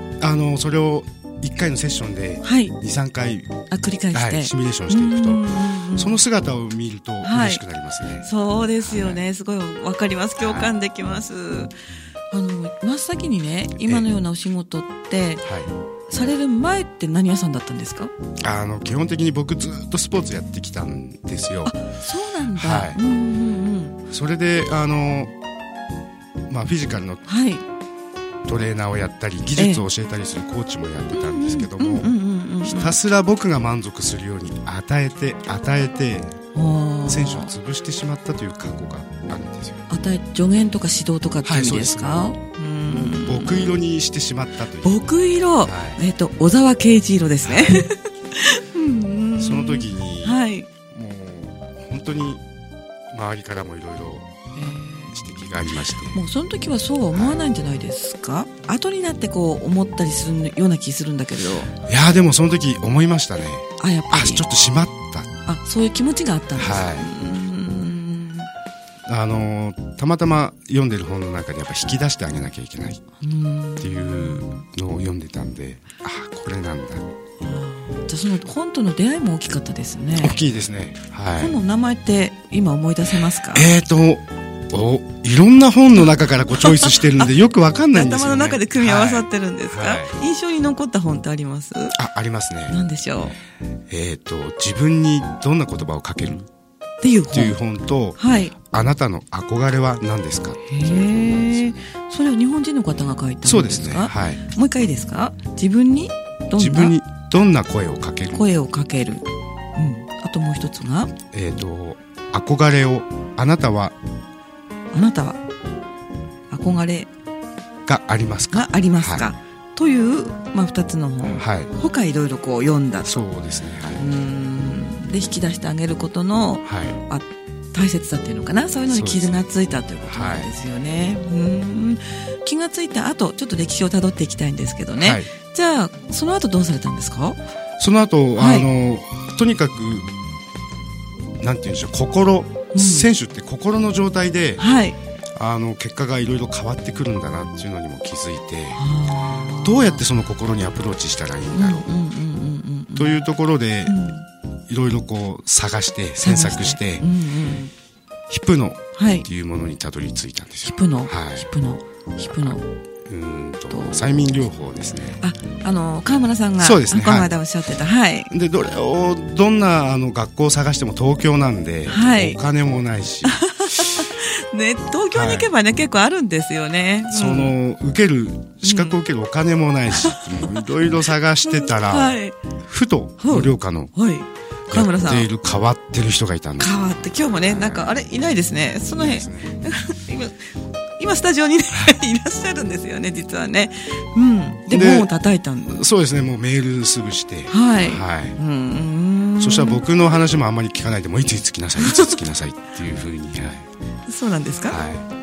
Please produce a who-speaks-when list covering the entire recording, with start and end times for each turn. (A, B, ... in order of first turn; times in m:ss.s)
0:00.2-0:03.6 A
0:02.4-0:02.7 B
0:03.7-0:06.2 B
0:04.1-0:08.3 A
0:07.2-0:07.6 B
0:08.2-0:11.7 B
0:08.8-0:09.2 A
0:10.4-0:10.7 A
0:12.3-0:15.4 B
0:15.4-0:15.7 A
0:16.1-0:18.1 B
0:18.4-0:21.7 A
0:21.6-0:24.0 B
0:22.5-0:23.0 A
0:24.1-0:25.3 A
0:26.5-0:27.2 A
0:27.2-0:27.6 B
0:28.4-0:36.4 A
0:29.6-0:29.8 B
0:31.1-0:33.0 B
0:36.5-0:37.5 B
0:37.1-0:39.8 A
0:39.9-0:43.8 B
0:41.4-0:42.3 A
0:42.9-0:45.0 A
0:44.8-0:50.7 B
0:45.6-0:46.0 A
0:47.4-0:47.8 A
0:49.4-0:52.4 A
0:53.1-0:54.3 A
0:54.5-0:55.2 B
0:55.1-0:56.2 A
0:56.1-1:01.7 B
0:57.1-0:57.4 A
1:01.8-1:05.3 A
1:03.8-1:04.4 B
1:05.4-1:08.5 B
1:06.6-1:07.1 A
1:09.0-1:13.0 A
1:13.2-1:14.6 B
1:13.8-1:17.0 A
1:17.4-1:20.4 B
1:20.2-1:21.5 A
1:21.4-1:23.7 B
1:23.5-1:30.1 A
1:26.5-1:27.3 B
1:27.9-1:32.0 B
1:31.9-1:32.8 A
1:32.7-1:33.4 B
1:33.9-1:36.5 A
1:37.0-1:37.6 B
1:37.3-1:41.8 A
1:38.2-1:38.5 B
1:40.7-1:47.0 B
1:43.4-1:44.4 A
1:46.6-1:48.4 A
1:48.3-1:49.2 B
1:49.8-1:51.1 B
1:51.3-1:53.9 A
1:54.9-1:55.4 B
1:56.5-1:57.1 B
1:57.8-1:59.2 A
1:58.5-2:03.2 B
2:01.2-2:01.7 A
2:03.0-2:04.0 A
2:03.9-2:17.4 B
2:06.6-2:07.0 A
2:08.9-2:09.4 A
2:10.0-2:10.5 A
2:15.0-2:15.3 A
2:17.8-2:20.1 A
2:18.4-2:18.7 B
2:21.4-2:24.6 A
2:22.7-2:23.1 B
2:24.6-2:25.0 B
2:25.3-2:28.8 A
2:28.8-2:30.0 B
2:29.5-2:31.9 A
2:31.5-2:33.2 B
2:32.9-2:34.0 A
2:33.8-2:34.3 B
2:34.7-2:37.1 A
2:36.2-2:37.7 B
2:38.3-2:41.5 A
2:39.0-2:39.3 B
2:40.7-2:42.6 B
2:42.3-2:45.2 A
2:43.7-2:44.1 B
2:45.2-2:48.3 B
2:46.6-2:47.3 A
2:48.3-2:54.0 A
2:51.9-2:52.4 B
2:53.2-2:57.5 B
2:55.1-2:55.5 A
2:57.1-3:02.1 A
2:58.6-2:59.0 B
2:59.9-3:00.6 B
3:01.4-3:02.3 B
3:02.6-3:03.9 A
3:03.2-3:05.3 B
3:04.7-3:07.9 A
3:06.6-3:10.4 B
3:08.9-3:09.6 A
3:11.0-3:15.8 B
3:14.7-3:15.1 A
3:15.7-3:18.4 A
3:17.5-3:19.8 B
3:19.4-3:23.6 A
3:21.8-3:22.2 B
3:24.1-3:24.8 B
3:24.7-3:25.0 A